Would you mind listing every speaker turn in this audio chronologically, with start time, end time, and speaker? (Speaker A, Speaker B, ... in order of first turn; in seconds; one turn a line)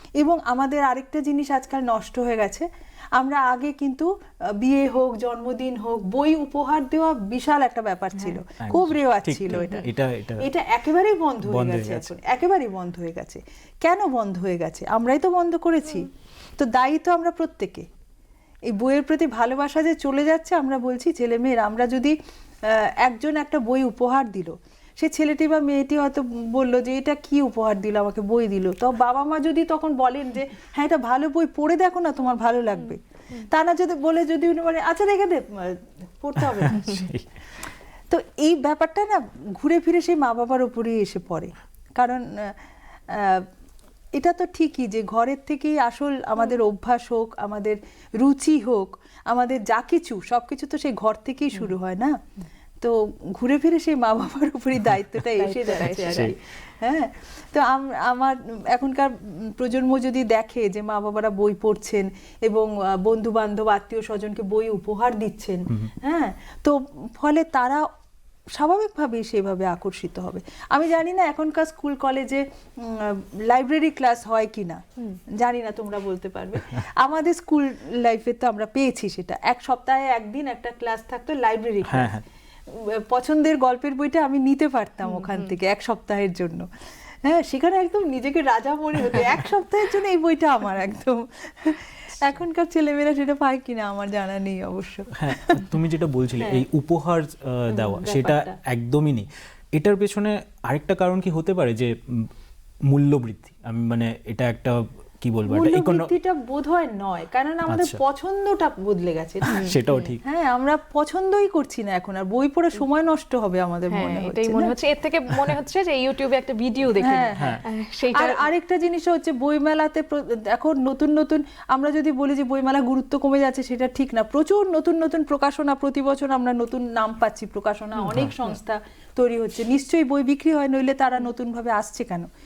Speaker A: 0.2-4.1
Speaker A: 4.6-9.9
Speaker B: 8.6-10.5
Speaker C: 9.5-9.8
Speaker A: 10.4-17.9
Speaker B: 11.5-12.1
Speaker A: 18.7-37.0
Speaker B: 36.5-37.3
Speaker A: 38.1-43.5
Speaker A: 44.1-52.2
Speaker A: 52.8-67.9
Speaker C: 55.3-56.4
Speaker B: 56.0-56.3
Speaker A: 68.5-82.1
Speaker B: 81.8-82.2
Speaker A: 82.7-86.7
Speaker C: 85.2-85.5
Speaker A: 87.2-95.6
Speaker B: 95.2-102.3
Speaker A: 97.8-98.6
Speaker B: 102.9-106.1
Speaker A: 105.5-109.7
Speaker B: 107.7-108.0
Speaker B: 109.5-110.2
Speaker C: 109.5-110.1
Speaker A: 110.2-114.7
Speaker C: 113.9-118.4
Speaker A: 117.0-117.6
Speaker B: 117.4-117.6
Speaker A: 118.1-132.3